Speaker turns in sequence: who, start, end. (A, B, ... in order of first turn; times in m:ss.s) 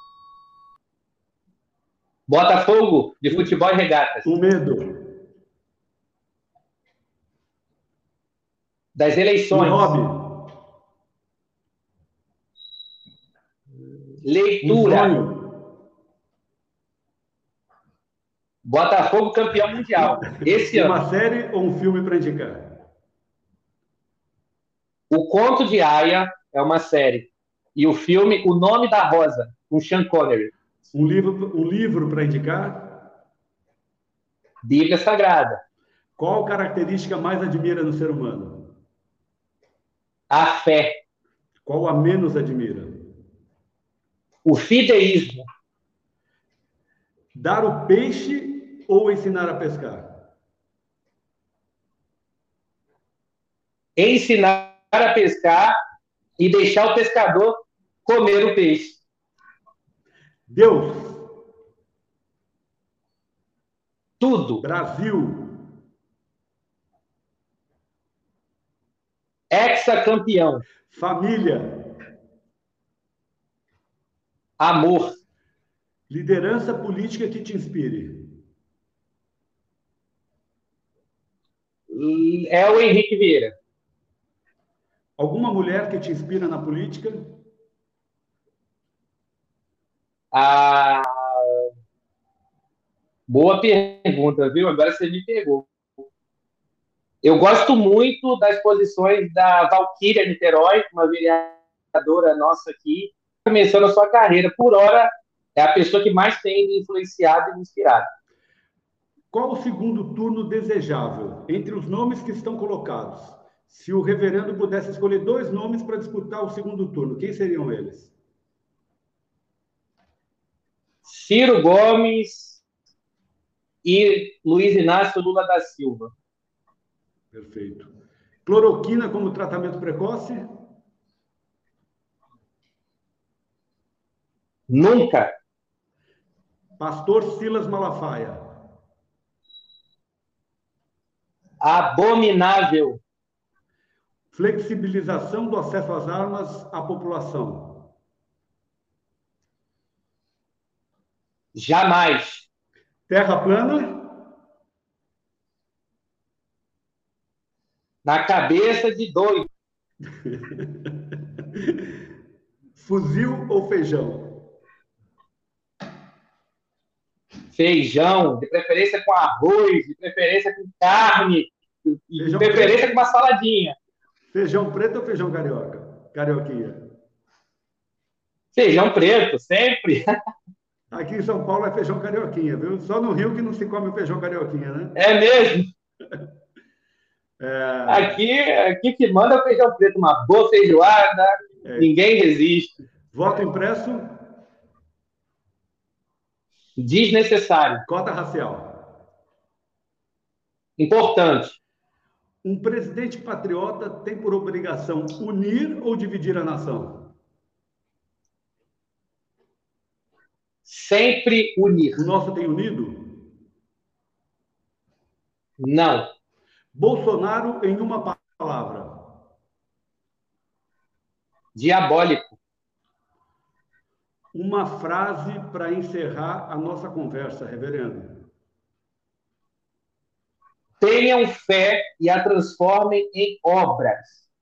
0:02.3-0:04.3 A
0:04.2-0:05.0 B
0:09.0-0:09.9 A
0:09.5-0:10.5 B
0:14.2-0:15.2 A
0:14.6-0:15.6 B
0:18.6-0:21.0 A
0:20.4-0:22.8 B
0:25.1-0:30.5 A
0:30.9-0:33.0 B
0:34.6-0:35.6 A
0:36.2-0:38.7 B
0:40.3-0:41.0 A
0:41.6-0:42.9 B
0:44.4-0:45.5 A
0:47.4-0:50.1 B
0:54.0-0:55.7 A
0:56.4-0:59.0 A
1:00.5-1:01.2 B
1:04.2-1:04.6 A
1:04.6-1:05.6 B
1:09.5-1:10.6 A
1:10.9-1:11.8 B
1:14.6-1:15.2 A
1:16.1-1:18.3 B
1:21.9-1:23.6 A
1:25.2-1:27.3 B
1:30.3-1:31.7 A
1:33.3-1:35.7 A
1:37.2-1:48.1 A
1:49.3-1:58.1 B
2:01.0-2:02.6 A
2:03.8-2:06.1 A
2:07.3-2:07.9 B
2:08.4-2:10.5 B
2:14.7-2:15.3 A
2:16.8-2:18.4 B
2:21.6-2:23.0 A
2:24.3-2:27.9 B
2:31.6-2:32.5 A
2:33.1-2:34.1 B
2:38.0-2:39.5 A
2:40.2-2:40.9 B
2:42.8-2:44.4 B
2:47.5-2:53.8 A
2:52.2-2:52.9 B
2:54.3-2:56.9 B
2:58.5-3:00.0 A
3:00.9-3:05.0 B
3:05.0-3:05.7 A
3:07.4-3:08.2 B
3:07.9-3:12.8 A
3:11.6-3:11.9 B
3:13.1-3:14.2 B
3:16.8-3:17.8 A
3:17.9-3:18.8 B
3:20.8-3:21.6 A
3:22.4-3:27.1 B
3:30.7-3:32.0 A
3:32.0-3:33.2 B
3:35.6-3:36.1 A
3:36.7-3:39.0 B
3:41.6-3:42.4 A
3:44.3-3:48.2 B
3:50.8-3:54.2 A